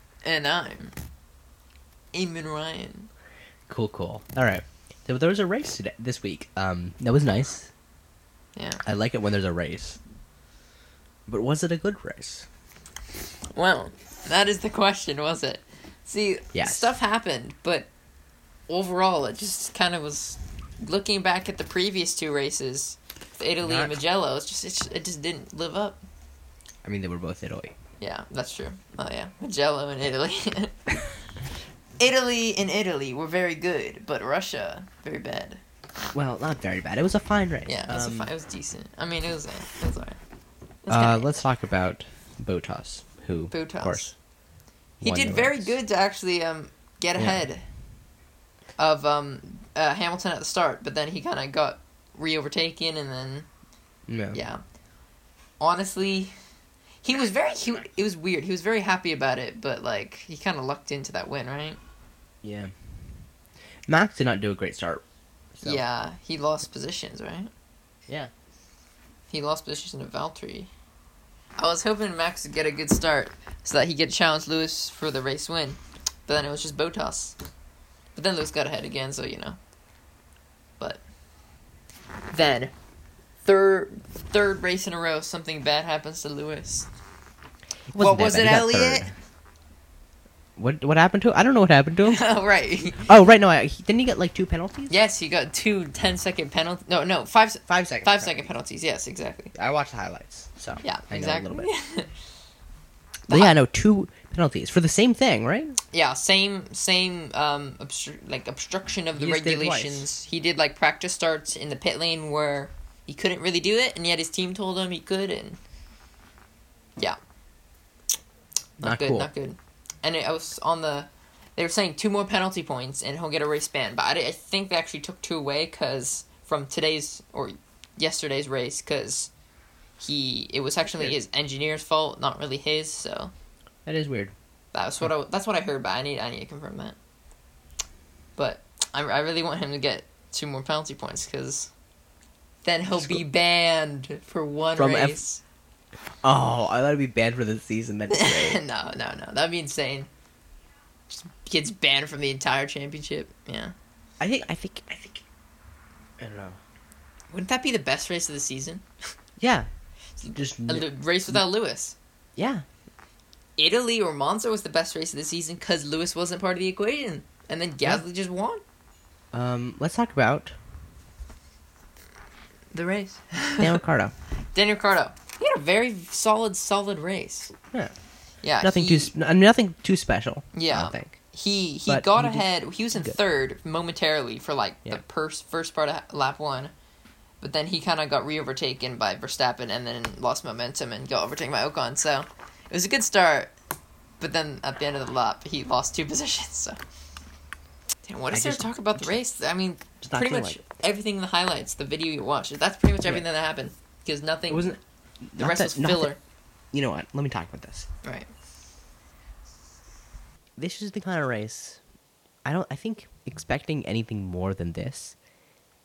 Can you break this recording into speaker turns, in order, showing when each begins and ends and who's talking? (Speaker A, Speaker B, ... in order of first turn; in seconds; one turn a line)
Speaker A: 0.2-0.9
Speaker A: 2.1-3.1
Speaker B: 3.7-7.7
Speaker A: 8.6-8.8
Speaker B: 8.8-10.0
Speaker B: 11.3-12.5
Speaker A: 13.5-17.9
Speaker B: 16.5-16.9
Speaker A: 18.7-26.0
Speaker B: 23.6-24.0
Speaker B: 26.9-27.8
Speaker A: 28.0-30.7
Speaker A: 32.0-35.6
Speaker B: 36.1-38.3
Speaker A: 37.7-40.2
Speaker A: 40.8-41.4
Speaker B: 40.9-44.1
Speaker A: 43.5-44.1
Speaker B: 45.0-45.8
Speaker A: 45.0-47.6
Speaker B: 47.2-47.5
Speaker A: 48.8-53.5
Speaker B: 54.1-54.4
Speaker A: 54.3-54.6
Speaker A: 55.6-56.3
Speaker A: 57.0-61.8
Speaker B: 62.4-62.7
Speaker B: 63.9-65.0
Speaker B: 65.6-65.8
Speaker A: 65.6-67.5
Speaker A: 69.3-70.7
Speaker A: 71.6-77.4
Speaker A: 78.2-79.6
Speaker A: 82.3-82.7
Speaker A: 83.4-86.9
Speaker B: 87.9-89.2
Speaker A: 88.0-89.1
Speaker B: 90.6-92.2
Speaker A: 92.0-93.1
Speaker B: 92.9-95.0
Speaker A: 94.9-99.5
Speaker B: 97.7-98.5
Speaker B: 99.5-101.7
Speaker A: 100.8-102.1
Speaker A: 103.3-103.5
Speaker B: 103.3-105.8
Speaker A: 105.9-115.6
Speaker B: 109.2-110.1
Speaker B: 118.8-119.3
Speaker A: 118.8-129.3
Speaker A: 130.0-133.3
Speaker B: 133.8-134.3
Speaker A: 134.7-137.0
Speaker A: 138.4-141.7
Speaker A: 142.6-145.4
Speaker B: 142.9-143.2
Speaker B: 144.8-145.2
Speaker B: 146.2-148.6
Speaker A: 148.1-150.1
Speaker A: 151.1-153.7
Speaker B: 154.2-155.2
Speaker B: 156.2-156.6
Speaker A: 157.3-158.8
Speaker B: 159.4-159.7
Speaker A: 160.2-162.0
Speaker B: 160.3-161.4
Speaker B: 162.4-162.7
Speaker A: 163.6-168.6
Speaker B: 169.3-170.6
Speaker A: 172.7-173.8
Speaker B: 173.6-174.1
Speaker A: 174.5-177.5
Speaker A: 178.4-179.1
Speaker B: 178.6-181.2
Speaker A: 180.5-186.7
Speaker B: 181.9-183.2
Speaker A: 187.4-193.5
Speaker A: 194.2-196.8
Speaker A: 198.1-204.8
Speaker B: 198.3-199.2
Speaker B: 200.0-200.6
Speaker B: 204.5-206.1
Speaker A: 205.4-206.2
Speaker B: 206.7-207.9
Speaker A: 208.0-208.3
Speaker B: 210.6-211.8
Speaker B: 212.4-215.2